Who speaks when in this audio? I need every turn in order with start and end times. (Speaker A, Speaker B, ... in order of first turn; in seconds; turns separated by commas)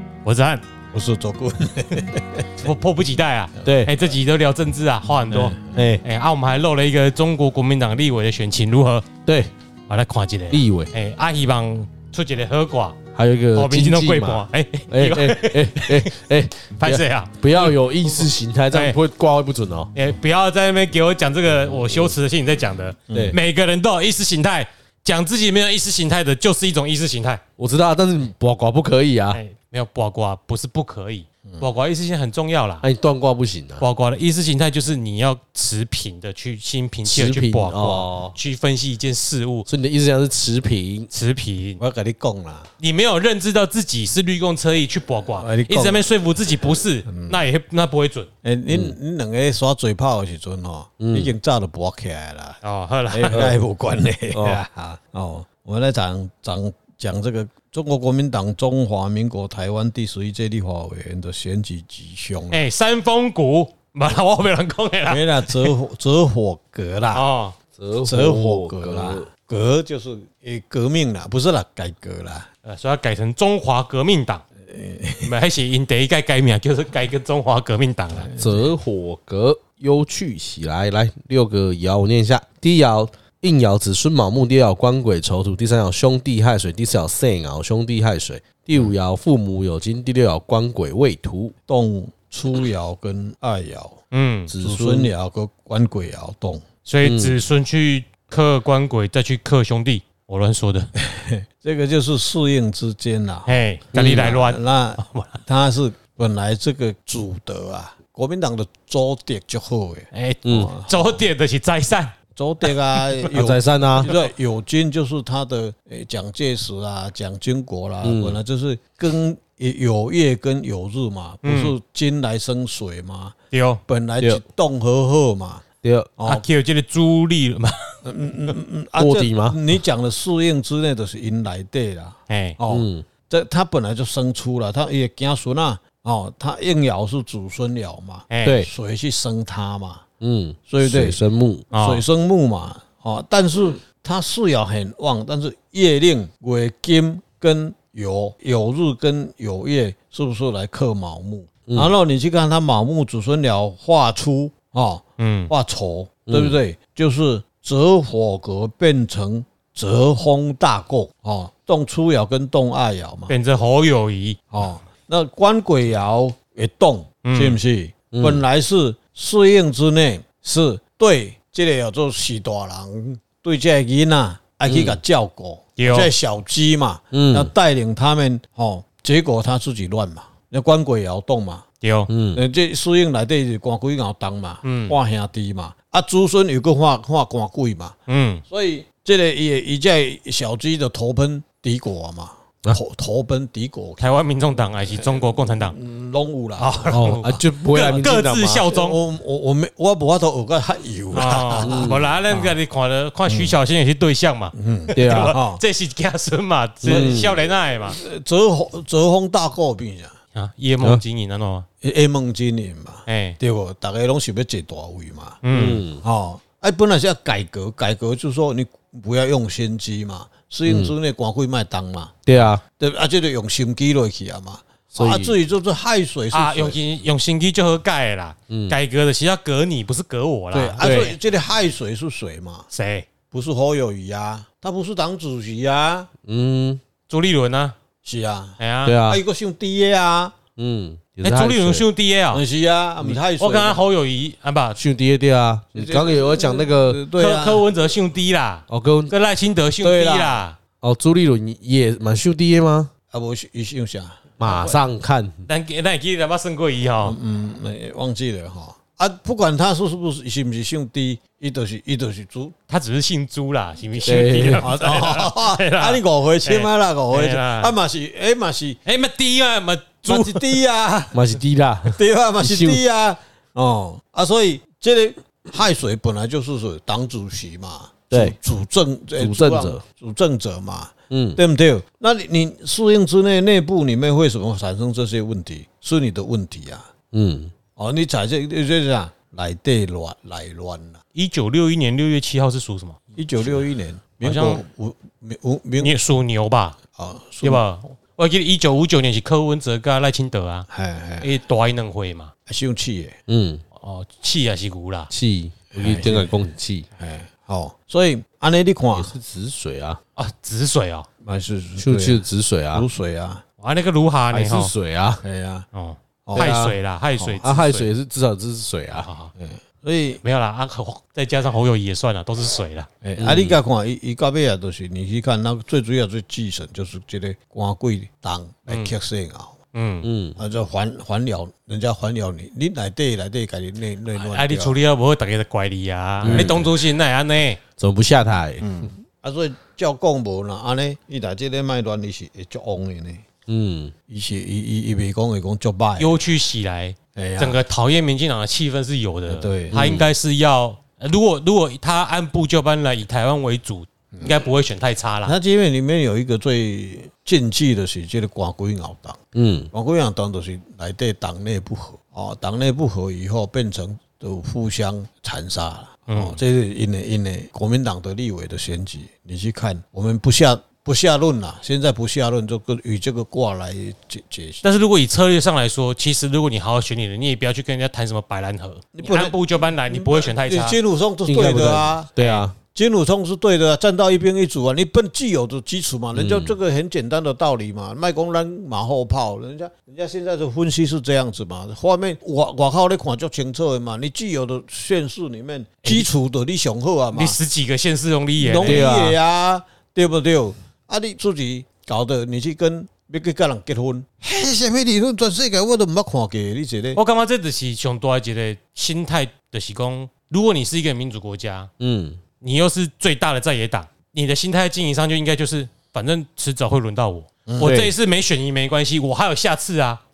Speaker A: 0.2-0.6, Speaker B: 0.9-2.6, Speaker A: 2.6-9.1, Speaker C: 3.6-3.9, Speaker B: 5.3-5.8, Speaker C: 5.7-6.0, Speaker A: 9.9-13.0, Speaker C: 10.5-10.9, Speaker C: 13.2-19.9, Speaker A: 13.5-16.1, Speaker A: 16.8-19.0, Speaker A: 19.9-27.4, Speaker C: 21.8-22.1, Speaker B: 23.1-23.4, Speaker C: 23.1-23.4, Speaker C: 27.6-29.4, Speaker A: 29.3-32.9, Speaker C: 32.8-33.9, Speaker A: 33.8-39.7, Speaker C: 37.0-38.4, Speaker C: 39.7-41.1, Speaker A: 41.1-41.8, Speaker B: 41.8-42.7, Speaker A: 42.8-48.3, Speaker B: 45.4-46.1, Speaker B: 47.1-47.4, Speaker B: 48.4-62.6, Speaker C: 48.7-49.0, Speaker C: 51.0-51.3, Speaker A: 52.6-53.5, Speaker C: 54.3-54.6, Speaker A: 62.5-65.7, Speaker B: 65.1-67.3, Speaker A: 67.1-67.6, Speaker C: 67.8-69.3, Speaker B: 68.0-72.5, Speaker A: 72.7-74.5, Speaker B: 74.7-75.3, Speaker A: 75.2-78.3, Speaker B: 78.2-78.7, Speaker C: 78.4-91.5, Speaker B: 91.7-94.0, Speaker A: 94.1-94.5, Speaker C: 94.5-95.1, Speaker B: 94.6-96.6, Speaker A: 96.8-100.9, Speaker C: 97.0-97.4, Speaker B: 101.0-111.2, Speaker A: 103.5-105.4, Speaker C: 103.9-104.3, Speaker A: 110.1-112.7, Speaker C: 110.5-110.7, Speaker B: 112.3-123.4, Speaker C: 113.3-114.1, Speaker C: 118.0-118.4, Speaker A: 121.4-121.8, Speaker A: 123.5-123.8, Speaker B: 123.9-125.7, Speaker C: 125.8-126.1, Speaker B: 126.2-126.4, Speaker A: 126.2-127.9, Speaker B: 128.0-140.0, Speaker C: 129.0-129.6, Speaker A: 132.3-132.6, Speaker C: 132.7-133.1, Speaker A: 138.3-138.6, Speaker C: 138.4-138.7, Speaker C: 140.2-141.7, Speaker B: 140.7-141.2, Speaker A: 141.7-142.0, Speaker B: 141.7-163.3, Speaker A: 155.2-155.5, Speaker C: 156.3-156.6, Speaker A: 163.3-164.4, Speaker B: 164.5-181.7, Speaker A: 167.2-167.6, Speaker C: 168.1-168.4, Speaker C: 174.7-175.0, Speaker A: 175.8-176.1, Speaker C: 177.1-177.5, Speaker A: 181.8-182.1, Speaker C: 182.1-182.4, Speaker B: 182.3-187.9, Speaker A: 184.6-185.0, Speaker A: 188.1-188.4, Speaker B: 188.5-194.0, Speaker A: 194.0-195.8, Speaker B: 194.9-197.1, Speaker A: 196.6-199.0, Speaker C: 196.9-198.7, Speaker B: 198.7-202.6, Speaker A: 201.1-208.0, Speaker C: 201.6-202.0, Speaker B: 203.3-203.6, Speaker B: 204.6-205.6, Speaker C: 205.0-205.3, Speaker C: 206.8-207.4, Speaker B: 206.9-207.3, Speaker B: 207.9-210.2, Speaker A: 210.3-211.7, Speaker B: 211.8-222.1, Speaker A: 213.1-213.4, Speaker A: 215.4-215.8, Speaker C: 215.5-216.0, Speaker C: 220.7-220.9, Speaker C: 222.3-222.6, Speaker B: 222.8-226.8, Speaker C: 224.9-225.4, Speaker A: 226.3-231.2, Speaker C: 228.5-228.8, Speaker B: 230.5-232.7, Speaker C: 230.8-231.1, Speaker A: 232.7-233.1, Speaker B: 233.3-236.1, Speaker C: 236.3-236.8, Speaker A: 237.1-237.8, Speaker B: 238.0-240.4, Speaker A: 238.6-239.0, Speaker C: 238.8-239.2, Speaker C: 240.6-241.9, Speaker A: 241.2-242.4, Speaker B: 242.3-243.8, Speaker A: 243.4-244.8, Speaker C: 244.8-247.0, Speaker B: 245.8-247.7, Speaker A: 247.2-250.6, Speaker C: 248.7-249.1, Speaker B: 249.8-250.4, Speaker C: 250.8-252.9, Speaker B: 253.1-254.4, Speaker C: 254.4-255.5, Speaker A: 254.4-254.8, Speaker A: 255.5-257.2, Speaker B: 257.0-262.6, Speaker A: 262.7-267.7, Speaker C: 264.1-264.7, Speaker B: 264.6-268.8, Speaker A: 268.9-270.6, Speaker B: 270.1-271.3, Speaker C: 271.1-272.8, Speaker B: 271.9-286.9, Speaker C: 278.1-278.4, Speaker C: 279.2-279.8, Speaker C: 281.1-281.4, Speaker C: 287.1-287.5, Speaker B: 287.8-291.0, Speaker A: 291.1-293.6, Speaker B: 293.1-295.9, Speaker A: 294.2-294.6, Speaker A: 295.8-296.8, Speaker B: 297.0-297.6, Speaker A: 297.4-300.7, Speaker B: 300.7-301.3, Speaker A: 301.2-302.3, Speaker B: 302.5-303.2, Speaker C: 303.3-303.6, Speaker A: 303.8-305.1, Speaker C: 305.1-306.9, Speaker B: 305.8-306.4, Speaker B: 307.0-309.1, Speaker C: 308.9-310.0, Speaker A: 310.2-311.1, Speaker B: 311.2-313.4, Speaker C: 311.8-312.9, Speaker A: 313.6-314.7, Speaker C: 314.3-315.2, Speaker B: 315.2-315.7, Speaker A: 315.7-317.9, Speaker B: 316.2-316.5, Speaker C: 316.4-316.8, Speaker C: 317.4-319.1, Speaker A: 319.1-319.3, Speaker B: 319.4-320.2, Speaker A: 320.2-322.9, Speaker B: 323.0-329.6, Speaker C: 323.2-323.6, Speaker A: 328.7-328.9, Speaker A: 329.7-330.1, Speaker C: 330.0-330.4, Speaker B: 330.4-334.8, Speaker A: 334.1-337.6, Speaker B: 336.2-336.7, Speaker C: 336.2-336.6, Speaker C: 337.8-338.7, Speaker B: 338.6-343.2, Speaker C: 343.5-343.9, Speaker B: 344.1-346.2, Speaker A: 346.0-355.4, Speaker B: 347.1-347.6, Speaker B: 349.3-349.9, Speaker C: 349.7-350.1, Speaker B: 354.1-354.4, Speaker B: 355.3-359.2, Speaker C: 359.4-359.7, Speaker B: 359.7-374.6, Speaker A: 366.1-366.4, Speaker A: 374.6-380.8, Speaker B: 379.0-382.1, Speaker C: 381.3-382.6, Speaker A: 382.2-382.5, Speaker B: 382.7-397.4, Speaker C: 386.1-386.6, Speaker A: 395.8-396.1, Speaker A: 397.1-398.8, Speaker B: 398.4-407.0, Speaker C: 398.6-399.2, Speaker A: 406.9-411.7, Speaker C: 411.8-412.2, Speaker A: 412.4-420.0, Speaker B: 417.5-417.8, Speaker C: 417.6-417.9